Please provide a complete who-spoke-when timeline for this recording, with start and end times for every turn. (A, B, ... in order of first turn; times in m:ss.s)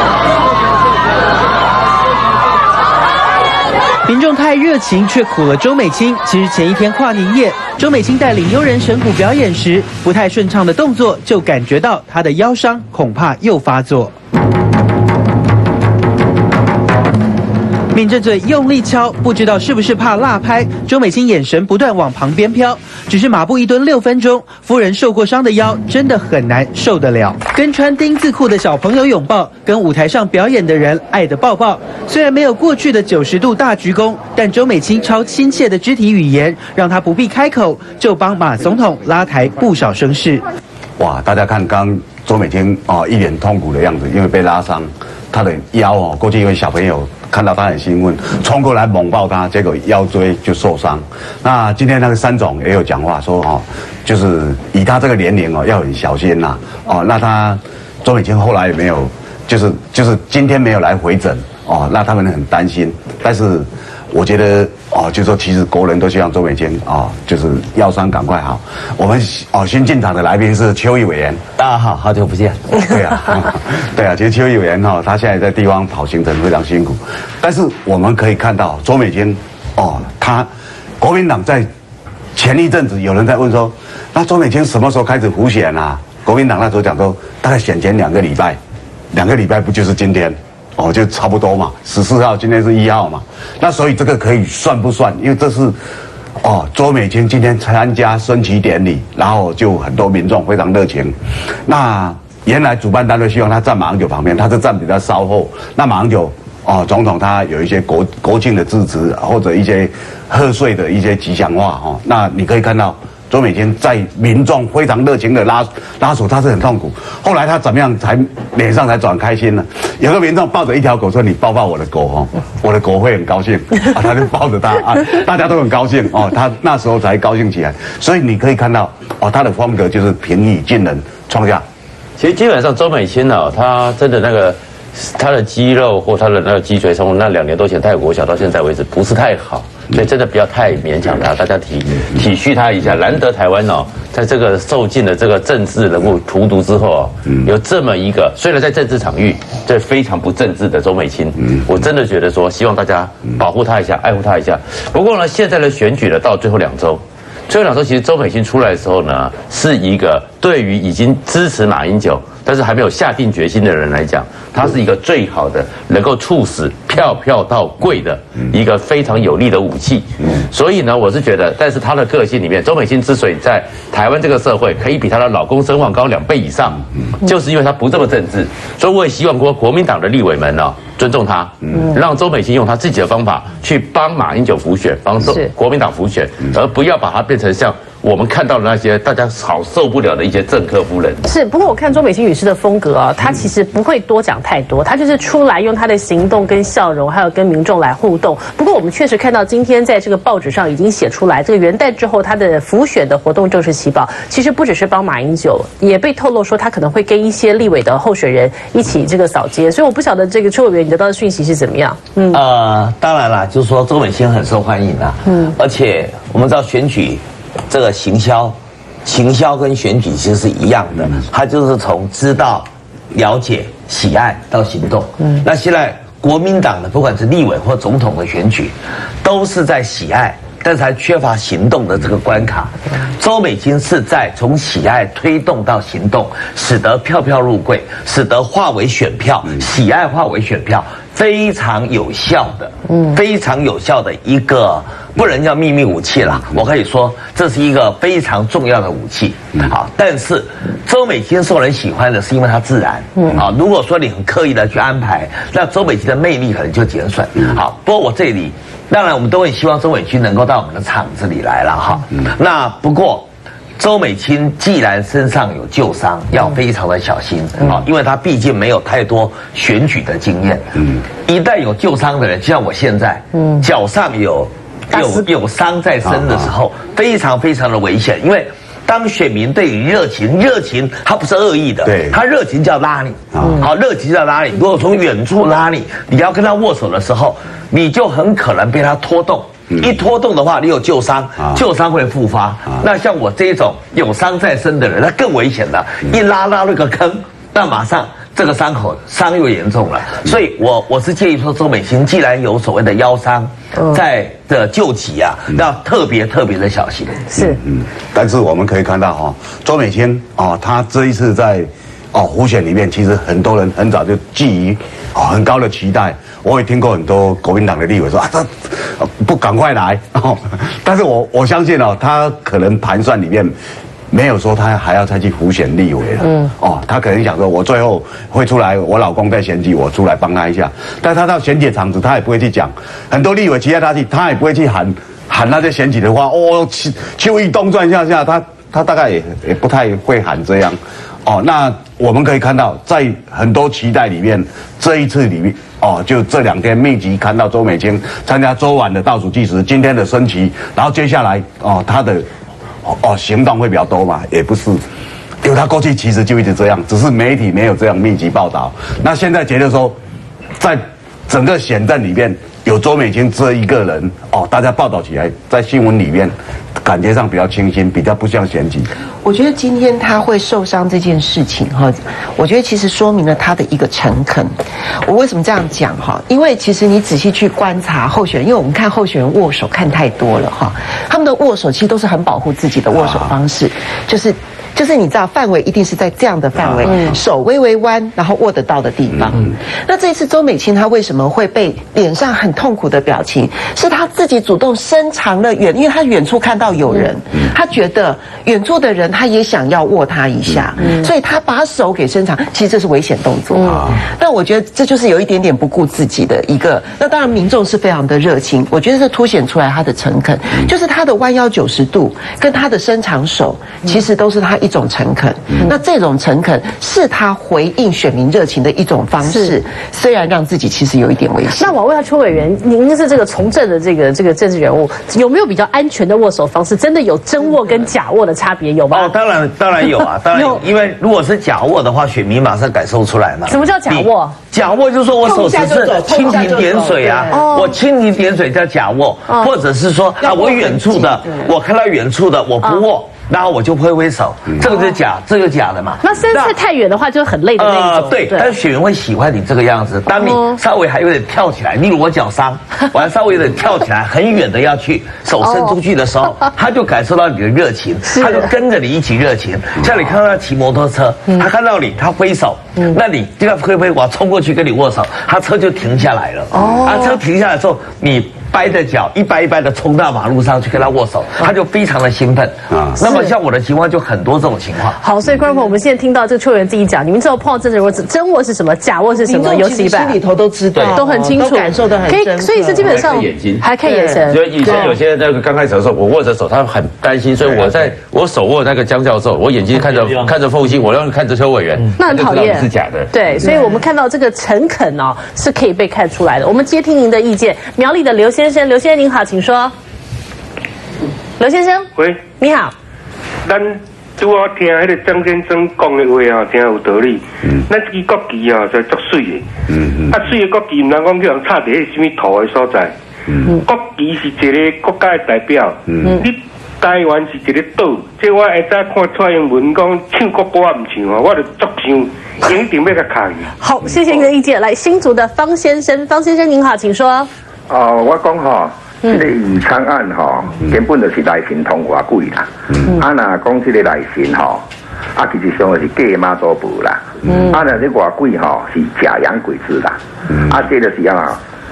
0:04.1-0:14.1 A
0:17.9-0:40.4 A
0:41.0-1:11.4 B
1:11.6-1:12.8 C
1:12.8-1:20.5 B
1:21.0-1:21.7 B
1:22.4-1:28.6 B
1:29.1-1:35.8 B
1:36.4-1:41.1 B
1:41.7-2:11.6 B
2:12.2-3:11.2 D
3:11.2-3:32.4 E
3:32.3-5:07.2 C
4:36.0-4:36.5 B
4:41.8-4:42.2 B
4:43.3-4:43.7 B
5:07.3-5:07.6 E
5:07.4-5:23.5 B
5:24.1-5:52.3 B
5:52.8-5:54.8 B
5:55.4-6:00.0 B
6:00.6-6:08.9 B
6:09.2-6:14.5 F
6:15.0-7:01.8 F
6:43.6-6:43.9 E
6:59.2-6:59.6 E
7:01.6-7:09.1 E
7:08.9-7:26.6 C
7:09.8-7:10.7 E
7:13.5-7:14.4 E
7:15.2-7:17.6 F
7:17.2-7:17.8 E
7:19.3-7:19.6 E
7:20.2-7:21.5 F
7:26.0-7:28.6 E
7:27.6-7:55.0 C
7:30.1-7:30.6 E
7:35.4-7:35.8 E
7:38.1-7:38.5 E
7:46.5-7:47.2 E
7:52.7-7:53.0 B
7:53.0-7:53.4 E
7:55.0-8:00.2 E
7:59.1-8:03.2 F
8:00.8-8:01.0 C
8:00.9-8:04.5 E
8:02.8-8:03.6 D
8:03.8-8:05.0 F
8:04.3-8:13.2 D
8:12.0-8:19.7 E
8:13.4-8:13.8 F
8:21.4-8:22.7 E
8:23.5-8:29.4 G
8:30.1-8:32.9 G
8:33.8-8:35.7 G
8:36.0-8:36.3 E
8:36.8-8:43.4 G
8:43.6-8:47.3 E
8:47.7-8:54.6 H
8:49.0-8:49.3 E
8:55.2-9:01.4 H
8:57.3-8:57.7 E